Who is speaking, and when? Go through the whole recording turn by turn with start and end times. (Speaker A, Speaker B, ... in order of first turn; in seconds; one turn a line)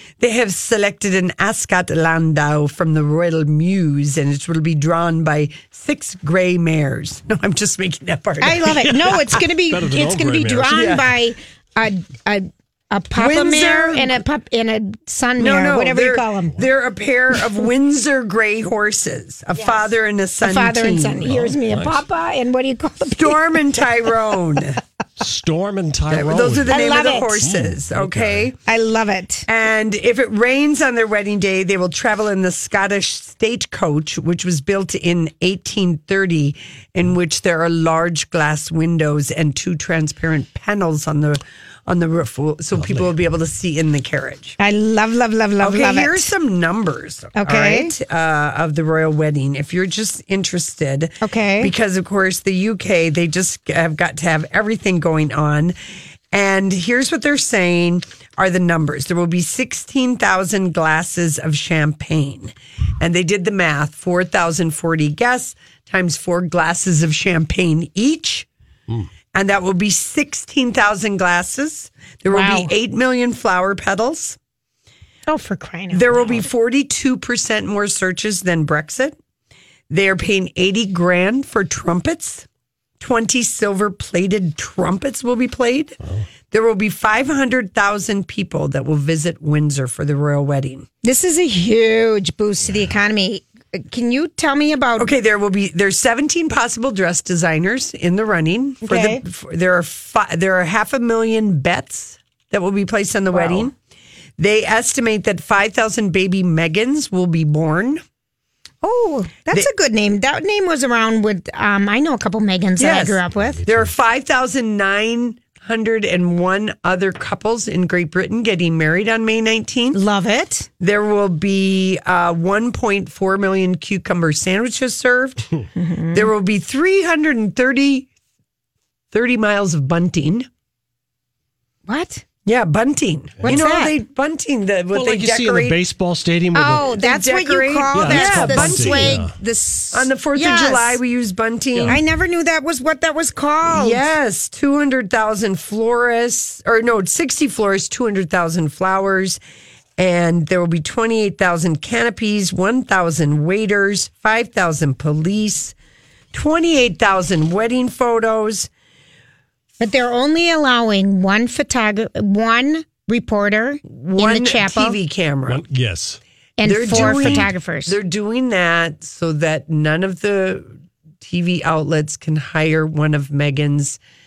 Speaker A: 0.2-9.1
Speaker B: 8.4-16.6
Speaker C: 8.8-11.0
Speaker A: 10.7-11.1
Speaker A: 13.2-14.2
Speaker A: 15.4-21.4
Speaker B: 20.4-23.6
Speaker C: 21.2-22.0
Speaker A: 23.1-24.8
Speaker C: 25.2-28.5
Speaker A: 26.1-28.6
Speaker B: 26.7-27.4
Speaker B: 28.6-29.4
Speaker A: 29.5-44.6
Speaker C: 42.7-43.3
Speaker B: 44.6-46.3
Speaker A: 45.6-55.7
Speaker B: 47.4-47.9
Speaker B: 51.2-51.7
Speaker A: 56.3-68.5
Speaker A: 69.3-74.4
Speaker B: 72.3-72.7
Speaker B: 75.3-76.5
Speaker A: 75.9-79.2
Speaker A: 79.9-82.5
Speaker A: 83.0-90.9
Speaker B: 91.0-95.1
Speaker A: 95.0-103.7
Speaker B: 98.8-99.2
Speaker B: 103.3-103.7
Speaker A: 104.4-108.0
Speaker B: 108.8-113.6
Speaker A: 112.8-120.0
Speaker C: 113.3-113.9
Speaker B: 119.9-120.7
Speaker A: 120.8-125.5
Speaker B: 125.7-126.3
Speaker A: 126.1-128.1
Speaker A: 129.1-130.5
Speaker B: 131.9-132.2
Speaker A: 132.4-135.8
Speaker B: 133.4-133.9
Speaker C: 134.9-136.9
Speaker B: 136.6-141.0
Speaker A: 136.9-139.3
Speaker C: 137.9-139.3
Speaker A: 139.9-142.0
Speaker C: 141.7-142.0
Speaker B: 141.9-144.0
Speaker A: 143.6-149.4
Speaker A: 150.0-155.7
Speaker A: 156.3-158.7
Speaker B: 159.8-165.0
Speaker A: 163.9-165.6
Speaker C: 165.4-166.2
Speaker B: 166.6-168.0
Speaker A: 166.6-174.0
Speaker C: 166.9-167.5